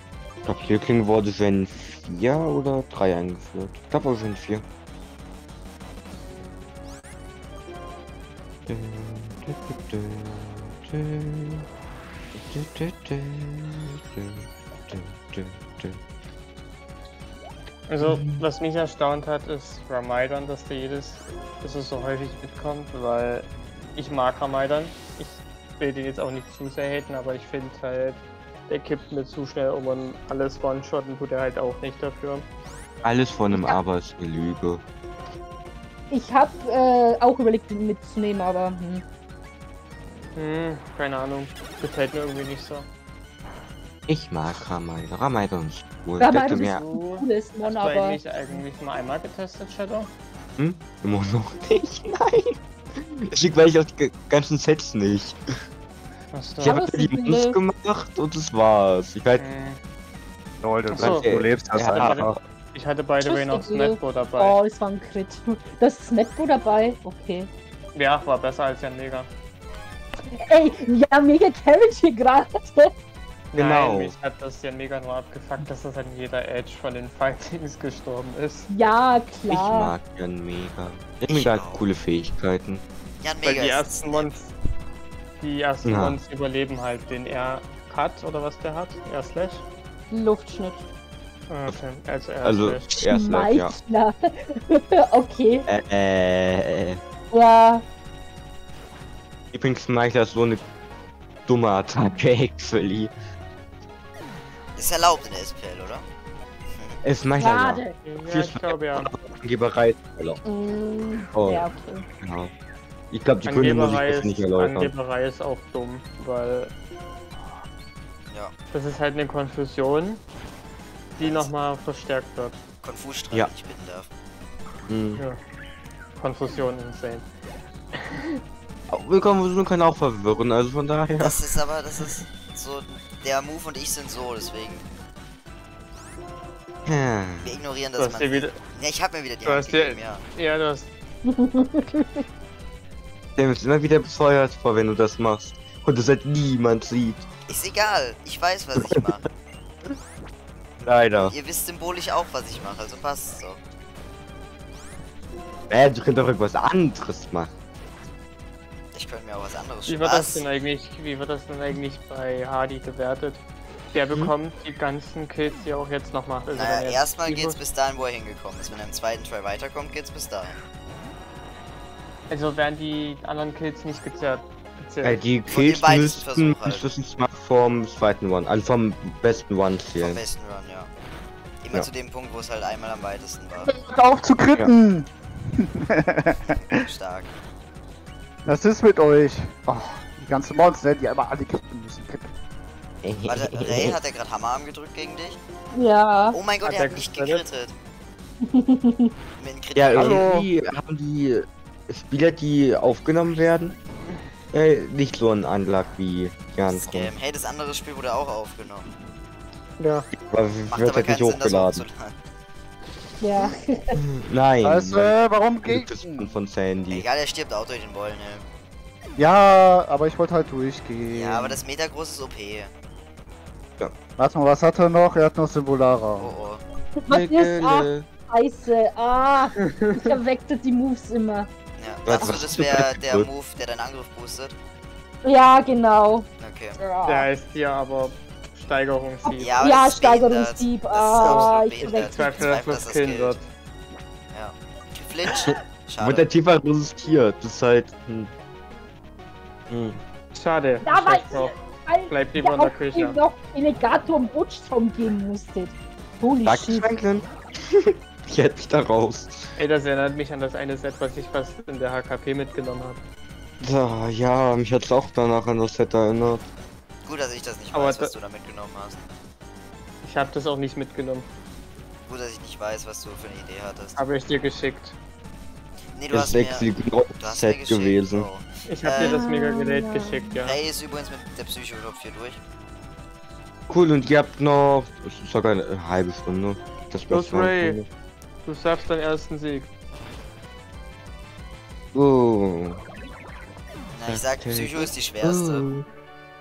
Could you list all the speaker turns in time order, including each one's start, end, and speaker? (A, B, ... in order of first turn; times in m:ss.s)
0:00.4-0:04.6 A
0:08.7-0:11.7 A
0:12.4-0:16.0 A
0:17.9-0:32.5 B
0:18.0-0:18.4 A
0:33.0-0:34.8 A
0:33.5-0:33.8 C
0:36.1-0:39.0 C
0:40.4-0:42.9 B
0:44.1-0:46.8 A
0:46.2-0:48.2 C
0:46.6-0:50.1 B
0:50.6-0:55.4 A
0:56.3-0:56.8 B
0:56.6-0:57.6 C
0:56.6-0:59.4 A
0:59.4-0:59.8 B
1:00.6-1:02.3 D
1:00.9-1:04.6 B
1:00.9-1:02.4 A
1:03.2-1:07.5 C
1:07.9-1:09.3 B
1:10.3-1:12.9 C
1:13.5-1:18.7 B
1:13.6-1:14.1 A
1:18.7-1:19.9 C
1:19.5-1:22.8 A
1:21.3-1:21.8 E
1:23.2-1:24.3 E
1:23.4-1:24.5 B
1:25.4-1:29.6 B
1:25.8-1:26.2 A
1:30.1-1:30.8 C
1:31.5-1:32.9 B
1:32.4-1:33.8 A
1:33.0-1:35.7 C
1:35.7-1:37.0 A
1:37.3-1:37.8 C
1:39.5-1:40.6 A
1:41.5-1:43.1 A
1:44.8-1:46.0 E
1:46.7-1:47.0 E
1:47.0-1:50.4 A
1:47.4-1:48.0 C
1:48.0-1:49.1 B
1:50.4-1:52.0 C
1:51.3-1:51.7 A
1:52.2-1:52.5 A
1:53.1-1:54.9 A
1:53.5-1:56.7 B
1:58.7-2:00.2 B
2:01.2-2:02.6 B
2:01.2-2:01.5 E
2:02.8-2:04.1 E
2:04.9-2:05.2 A
2:06.2-2:07.3 B
2:07.9-2:08.4 B
2:08.9-2:11.4 A
2:11.2-2:14.8 E
2:16.9-2:17.5 A
2:17.4-2:20.2 E
2:18.0-2:18.6 B
2:19.4-2:20.9 B
2:21.3-2:21.9 C
2:23.4-2:27.2 A
2:27.5-2:29.3 E
2:28.8-2:29.1 A
2:30.8-2:31.4 A
2:31.2-2:33.6 E
2:35.7-2:37.5 A
2:38.9-2:40.4 E
2:39.9-2:47.6 B
2:46.5-2:50.6 E
2:52.3-2:55.2 B
2:55.0-3:00.2 A
2:55.5-2:56.9 E
3:00.0-3:00.9 E
3:01.6-3:03.7 E
3:03.7-3:06.8 D
3:06.5-3:07.3 E
3:08.5-3:12.3 D
3:13.0-3:14.0 A
3:13.3-3:15.4 E
3:15.7-3:16.4 C
3:16.3-3:17.7 E
3:16.6-3:17.4 B
3:18.4-3:19.1 C
3:19.4-3:20.2 E
3:19.8-3:23.8 A
3:20.0-3:20.5 D
3:24.5-3:27.1 A
3:26.7-3:28.9 E
3:29.8-3:30.1 B
3:30.2-3:31.8 A
3:30.7-3:32.2 E
3:33.2-3:34.0 C
3:34.0-3:37.1 A
3:34.6-3:36.3 D
3:36.9-3:38.4 E
3:39.2-3:41.6 D
3:41.1-3:42.7 E
3:44.2-3:46.4 D
3:46.2-3:46.6 E
3:47.0-3:51.5 C
3:47.1-3:48.1 A
3:49.6-3:50.2 B
3:51.8-3:54.6 E
3:52.1-3:53.3 A
3:55.2-3:56.3 C
3:56.4-3:56.8 E
3:56.8-3:57.3 C
3:57.1-3:59.7 B
3:59.2-4:02.5 C
3:59.4-4:03.4 E
4:01.2-4:03.4 B
4:04.3-4:06.3 E
4:05.4-4:08.3 A
4:09.7-4:10.0 A
4:10.3-4:11.6 B
4:10.8-4:16.9 C
4:12.1-4:13.2 B
4:16.4-4:19.5 A
4:19.6-4:23.0 B
4:23.6-4:26.4 A
4:27.0-4:29.1 E
4:27.7-4:28.2 B
4:30.0-4:31.3 B
4:32.1-4:34.0 E
4:34.0-4:35.0 B
4:36.0-4:39.2 E
4:36.1-4:38.3 A
4:38.7-4:40.6 B
4:38.9-4:40.3 C
4:40.4-4:42.4 E
4:43.7-4:47.9 A
4:47.1-4:47.8 B
4:48.4-4:49.7 B
4:51.9-4:52.8 A
4:53.9-4:55.7 E
4:54.1-4:55.9 A